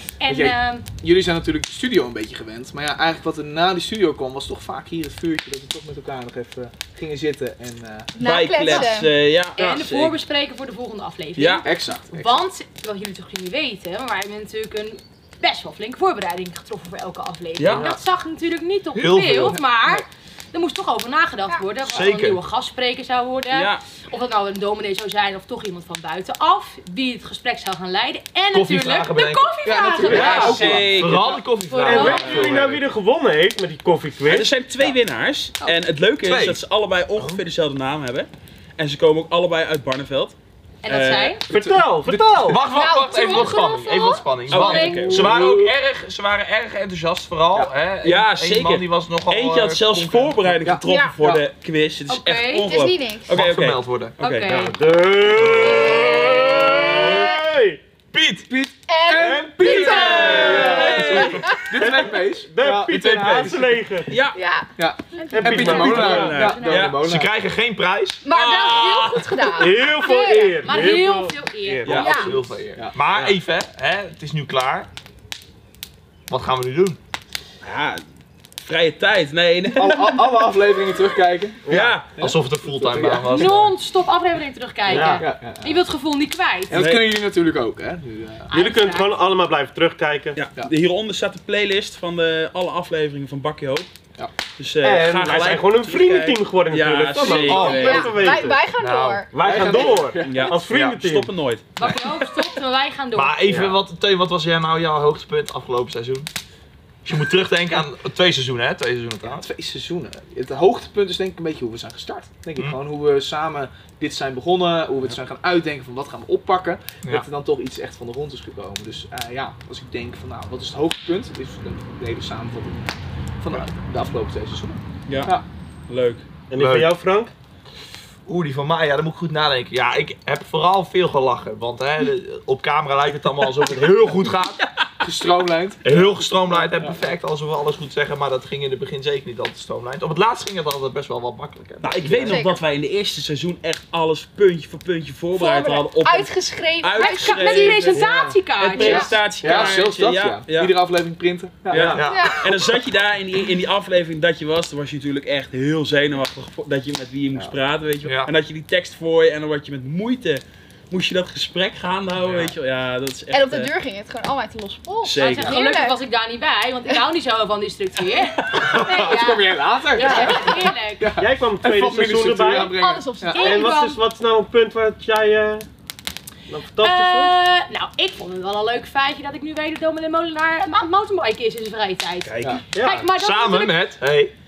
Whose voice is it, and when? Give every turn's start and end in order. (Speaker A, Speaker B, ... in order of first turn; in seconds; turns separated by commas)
Speaker A: 0.2-0.9, Speaker B: 0.3-8.1, Speaker C: 8.2-9.1, Speaker D: 8.2-10.2, Speaker A: 9.6-30.8, Speaker D: 11.4-11.7, Speaker B: 11.6-12.5, Speaker D: 17.6-17.9, Speaker E: 18.9-19.6, Speaker B: 19.4-20.1, Speaker E: 21.9-22.4, Speaker D: 23.5-23.8, Speaker E: 28.5-29.5, Speaker B: 29.6-31.4, Speaker D: 30.0-31.3, Speaker F: 30.1-30.8, Speaker E: 30.4-32.7, Speaker A: 31.6-32.5, Speaker F: 31.8-34.6, Speaker D: 32.0-32.8, Speaker D: 34.2-41.4, Speaker E: 36.2-36.6, Speaker A: 40.8-41.4, Speaker F: 41.5-42.6, Speaker B: 41.5-42.6, Speaker E: 42.5-50.5, Speaker C: 42.7-45.2, Speaker D: 44.5-45.7, Speaker A: 44.7-45.2, Speaker D: 48.0-54.7, Speaker B: 50.6-51.4, Speaker C: 50.8-51.2, Speaker A: 52.1-52.8, Speaker C: 52.5-53.4, Speaker E: 53.3-54.1, Speaker A: 54.2-54.8, Speaker F: 54.5-57.8, Speaker E: 55.8-56.2, Speaker E: 58.1-58.5, Speaker B: 58.5-63.9, Speaker C: 58.9-61.7, Speaker F: 59.2-64.2, Speaker D: 59.6-61.5, Speaker D: 64.1-64.4, Speaker C: 64.3-65.9, Speaker B: 64.8-67.3, Speaker A: 65.2-66.9, Speaker F: 65.3-66.4, Speaker D: 65.4-67.0, Speaker E: 67.0-68.2, Speaker C: 68.2-70.7, Speaker D: 68.3-69.5, Speaker F: 69.5-72.3, Speaker A: 70.6-72.1, Speaker D: 71.8-72.2, Speaker E: 71.9-74.9, Speaker C: 71.9-72.4, Speaker B: 72.8-73.4, Speaker E: 76.3-77.0, Speaker D: 77.6-78.0, Speaker D: 78.6-80.5, Speaker B: 79.7-83.5, Speaker F: 81.7-82.0, Speaker D: 81.7-82.2, Speaker E: 82.2-83.7, Speaker A: 83.1-86.8, Speaker F: 84.9-85.2, Speaker B: 84.9-85.8, Speaker B: 86.7-88.5, Speaker D: 86.7-87.1, Speaker A: 88.5-89.1, Speaker F: 88.5-90.5, Speaker D: 90.3-93.9, Speaker D: 94.6-98.3, Speaker F: 94.8-98.6, Speaker C: 97.3-100.0, Speaker E: 97.4-97.9, Speaker E: 98.8-99.2, Speaker F: 99.3-101.3, Speaker B: 99.4-100.5, Speaker D: 100.2-101.7, Speaker E: 100.7-101.0, Speaker A: 101.8-103.4, Speaker E: 101.8-102.1, Speaker E: 103.1-106.3, Speaker F: 103.5-103.8, Speaker E: 107.0-109.5, Speaker B: 109.3-125.4, Speaker D: 125.1-125.4, Speaker D: 125.9-126.2, Speaker F: 126.5-127.3, Speaker E: 126.6-126.9, Speaker E: 128.3-134.6, Speaker B: 135.0-137.0, Speaker E: 135.8-142.4, Speaker D: 141.8-148.0, Speaker C: 142.1-142.6, Speaker C: 145.3-148.0, Speaker A: 147.0-149.4, Speaker F: 147.9-148.4, Speaker D: 148.6-150.8, Speaker B: 148.8-152.0, Speaker C: 148.8-149.7, Speaker D: 151.7-163.7, Speaker F: 151.7-152.0, Speaker E: 151.8-152.4, Speaker C: 152.0-152.5, Speaker E: 158.0-158.3, Speaker E: 162.2-162.5, Speaker C: 163.3-166.0, Speaker D: 165.0-165.5, Speaker A: 165.2-171.2, Speaker B: 168.7-173.5, Speaker C: 169.9-170.8, Speaker F: 171.2-172.8, Speaker C: 172.8-173.7, Speaker A: 173.3-174.0, Speaker F: 173.4-175.7, Speaker F: 176.5-177.3, Speaker A: 176.8-184.0, Speaker D: 182.2-182.6, Speaker F: 182.7-183.1, Speaker E: 183.2-184.3